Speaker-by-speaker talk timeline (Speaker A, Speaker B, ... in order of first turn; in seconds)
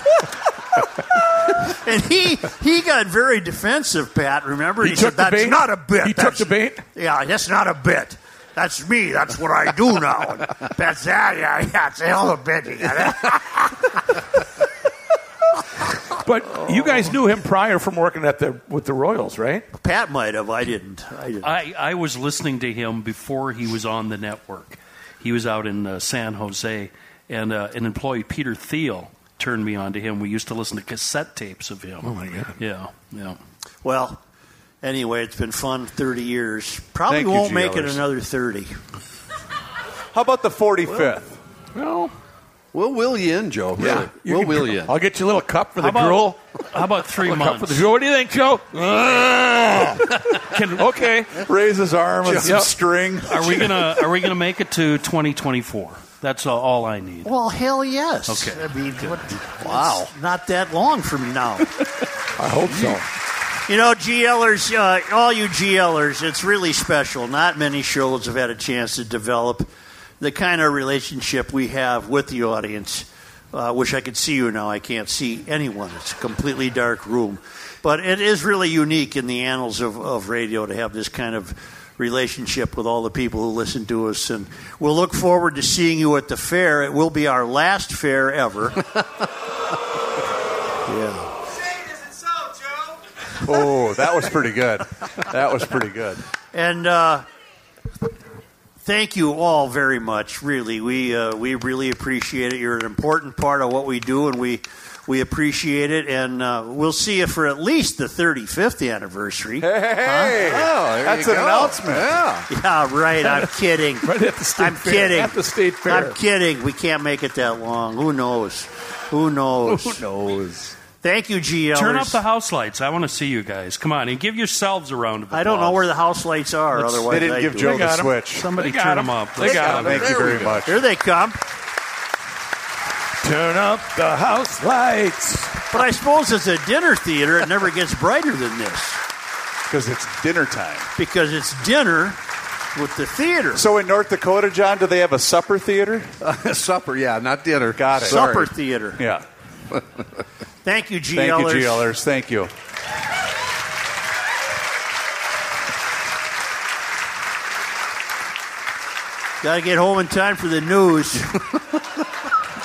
Speaker A: 1.6-13.4, 19.7-21.5, 33.8-34.2, 34.8-38.8, 57.2-61.7, 63.7-88.8, 90.9-91.3, 96.5-97.3, 98.8-110.5, 112.5-120.0, 121.0-122.2, 125.3-127.9, 130.6-131.4, 135.7-139.0, 141.0-142.2, 142.8-143.6, 148.0-149.0, 150.6-151.9, 159.4-161.4
Speaker B: 4.8-6.8, 16.1-19.7, 32.0-32.6, 41.8-42.1, 43.8-46.4, 47.2-51.4, 52.4-52.7, 62.4-63.0, 114.0-116.2, 127.6-130.1, 133.2-135.6
Speaker C: 21.4-33.4, 45.8-47.9, 53.3-57.3, 58.3-59.1, 121.7-125.8, 128.3-130.5
Speaker D: 37.1-38.0, 40.1-41.4, 51.4-53.9, 59.6-59.9, 93.4-96.2, 109.6-112.3, 126.9-128.5, 129.4-130.9, 139.7-140.9, 143.5-146.1, 147.7-148.2, 149.0-149.2, 151.2-152.5
Speaker E: 42.7-45.0, 52.3-52.5, 110.3-112.5, 120.1-120.7, 146.2-148.5